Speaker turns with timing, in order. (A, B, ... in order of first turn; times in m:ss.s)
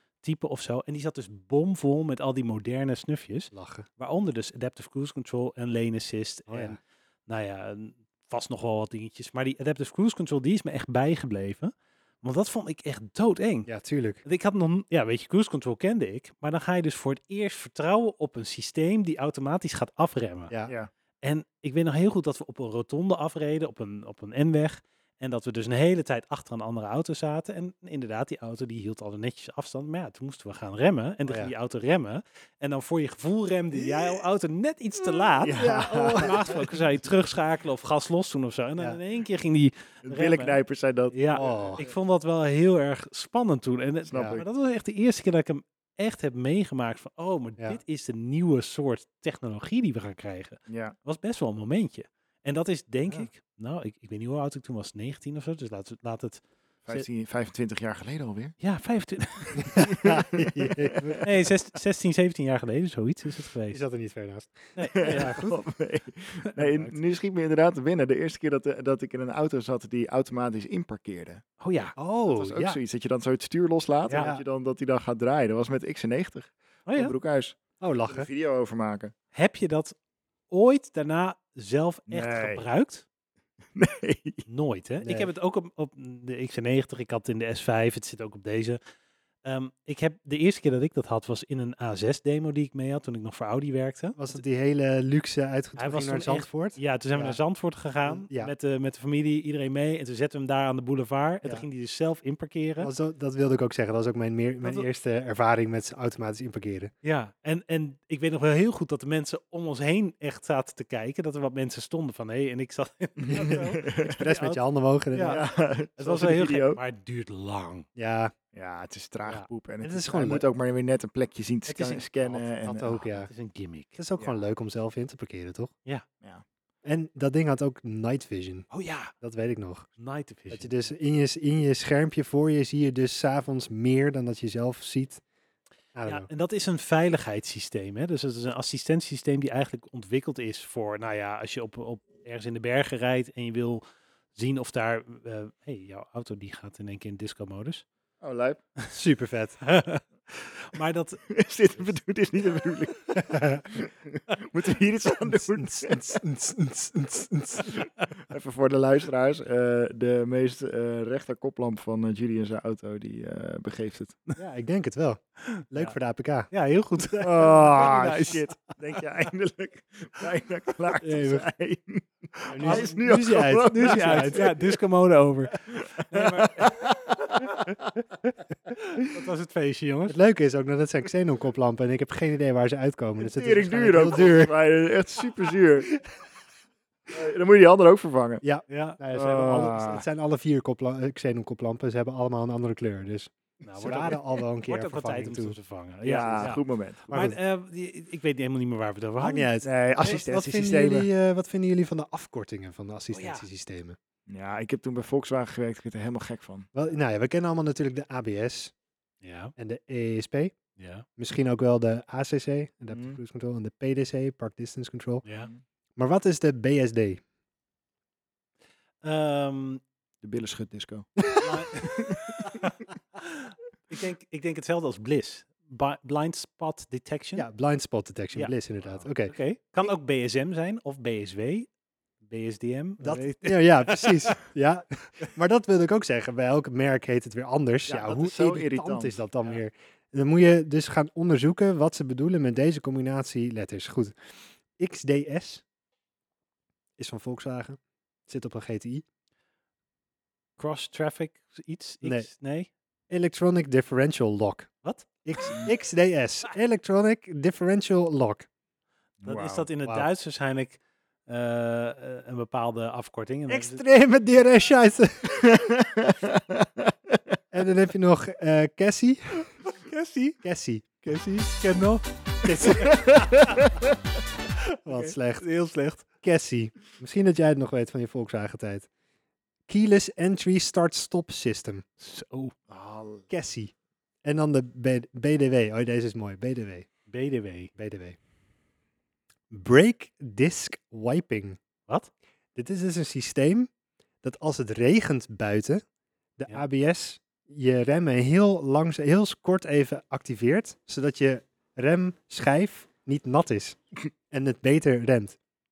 0:00.2-0:13.7 A
0:03.5-0:03.8 B
0:06.5-0:06.8 B
0:13.6-0:14.2 B
0:14.2-0:20.5 A
0:21.2-0:40.6 A
0:31.2-0:31.5 B
0:35.4-0:36.7 C
0:35.5-0:36.5 B
0:40.0-0:41.9 C
0:41.1-0:57.1 A
0:41.3-0:41.8 B
0:44.1-0:44.5 C
0:44.1-0:44.4 B
0:50.7-0:50.9 C
0:56.8-0:58.5 C
0:58.6-0:59.9 A
0:59.6-1:01.2 B
0:59.8-1:01.2 C
1:01.2-1:03.8 A
1:03.7-1:05.5 B
1:04.8-1:05.5 A
1:04.9-1:11.4 C
1:11.6-1:11.9 A
1:12.0-1:12.8 B
1:12.2-1:19.1 C
1:14.1-1:14.4 B
1:16.9-1:17.1 A
1:17.8-1:18.3 B
1:19.3-1:20.0 A
1:20.5-1:23.0 A
1:22.1-1:22.6 C
1:23.8-1:24.4 C
1:24.5-1:28.8 A
1:25.0-1:25.3 B
1:29.4-1:34.4 A
1:34.2-1:37.4 B
1:35.8-1:42.9 A
1:38.0-1:38.5 B
1:42.8-1:46.9 B
1:47.0-1:54.6 A
1:53.2-1:54.2 C
1:53.3-1:55.4 B
1:55.1-1:55.4 A
1:55.2-1:56.8 C
1:56.0-1:57.8 A
1:58.0-1:58.3 B
1:58.5-2:03.0 C
1:59.8-2:00.4 B
2:01.7-2:02.4 A
2:02.6-2:03.3 B
2:03.1-2:04.0 A
2:04.0-2:05.7 B
2:06.8-2:09.9 B
2:08.7-2:09.1 A
2:10.0-2:10.7 A
2:10.5-2:15.2 B
2:15.9-2:16.3 B
2:16.0-2:23.8 A
2:24.3-2:27.8 A
2:28.2-2:28.6 C
2:28.9-2:29.6 B
2:29.6-2:31.2 A
2:31.3-2:36.2 C
2:33.2-2:33.6 B
2:35.2-2:37.8 B
2:37.7-2:44.2 C
2:44.4-2:46.5 B
2:45.5-2:45.9 A
2:46.5-2:48.4 A
2:47.2-2:54.8 C
2:47.3-2:48.4 B
2:51.0-2:51.4 B
2:52.5-2:52.9 A
2:52.5-2:54.5 B
2:53.5-2:56.8 A
2:55.7-2:57.9 C
2:58.8-3:00.2 A
3:00.1-3:04.5 B
3:03.2-3:05.9 C
3:07.1-3:08.4 C
3:08.4-3:15.6 B
3:08.7-3:09.0 A
3:09.1-3:10.0 C
3:13.6-3:19.5 A
3:16.0-3:17.1 C
3:16.2-3:16.5 B
3:17.1-3:17.4 B
3:19.2-3:24.0 B
3:19.6-3:21.1 C
3:23.1-3:23.4 A
3:24.3-3:26.7 C
3:26.7-3:28.7 B
3:29.2-3:29.5 A
3:29.6-3:30.5 B
3:30.8-3:31.0 A
3:31.2-3:35.2 B
3:32.9-3:33.2 C
3:35.2-3:35.5 A
3:36.0-3:37.2 B
3:39.0-3:39.8 A
3:40.2-3:41.2 C
3:41.2-3:41.7 B
3:41.4-3:47.4 A
3:41.7-3:42.6 C
3:47.4-3:49.3 B
3:49.2-3:51.7 A
3:52.2-3:54.4 A
3:53.0-4:04.2 B
3:57.9-3:59.2 C
4:04.8-4:05.6 B
4:07.0-4:09.0 B
4:10.6-4:12.7 A
4:12.0-4:12.3 B
4:13.1-4:14.7 B
4:14.8-4:15.5 A
4:15.2-4:18.5 B
4:19.2-4:19.7 C
4:19.2-4:23.8 A
4:23.5-4:25.5 B
4:25.3-4:27.2 C
4:27.5-4:29.5 B
4:29.6-4:30.4 A
4:30.4-4:30.8 B
4:31.0-4:32.9 A
4:32.4-4:33.2 B
4:32.8-4:33.9 C
4:34.5-4:36.1 A
4:34.8-4:35.4 B
4:36.1-4:38.9 B
4:39.7-4:41.8 B
4:42.0-4:42.5 A
4:42.7-4:43.2 C
4:43.3-4:43.7 B
4:44.2-4:46.9 B
4:47.1-4:47.7 A
4:47.8-4:48.2 B
4:49.5-4:51.6 B
4:52.5-4:53.7 B
4:54.2-4:55.8 B
4:56.4-5:03.8 B
5:04.3-5:05.4 B